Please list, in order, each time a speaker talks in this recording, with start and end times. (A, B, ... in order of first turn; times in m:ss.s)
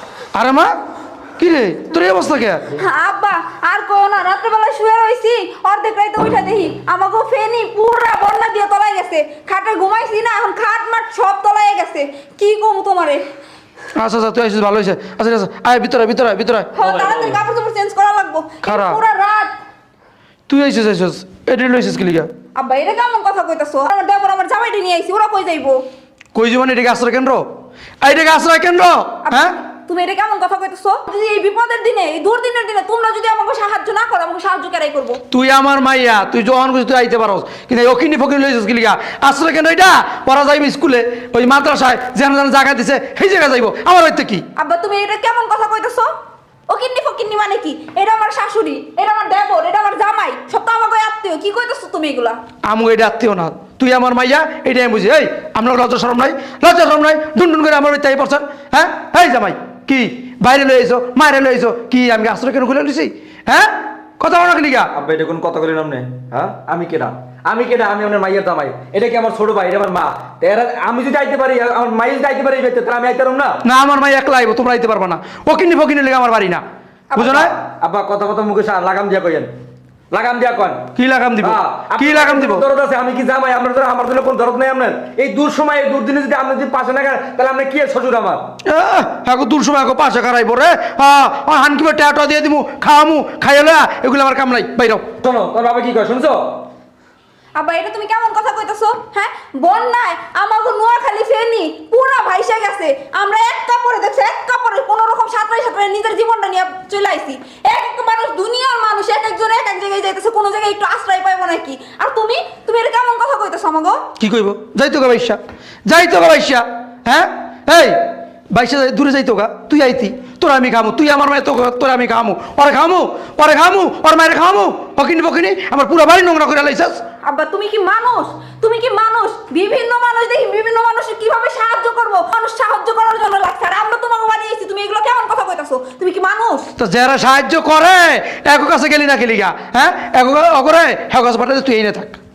0:00.3-0:00.7 A
0:01.4-0:02.7 A
0:02.7-0:13.3 B
0:14.0-0:16.7 A
0:16.8-0:19.5 B
0:18.6-0:19.0 A
0:20.5-0:22.3 A
0:22.6-0:25.8 B
0:26.4-0:27.4 A
0:28.0-0:29.5 A
0:29.2-0:35.2 B
0:35.3-0:44.4 A
0:44.6-0:46.1 B
0:46.7-0:52.4 B
0:52.7-1:04.9 A
1:04.9-1:13.6 C
1:13.6-1:16.6 A
1:17.2-1:19.5 C
1:17.2-1:17.5 A
1:20.1-1:20.9 C
1:21.0-1:22.6 A
1:21.4-1:28.4 C
1:28.6-1:35.1 A
1:35.2-1:36.4 C
1:37.6-1:54.0 B
1:54.2-2:07.0 A
2:07.2-2:16.7 B
2:16.8-2:22.2 A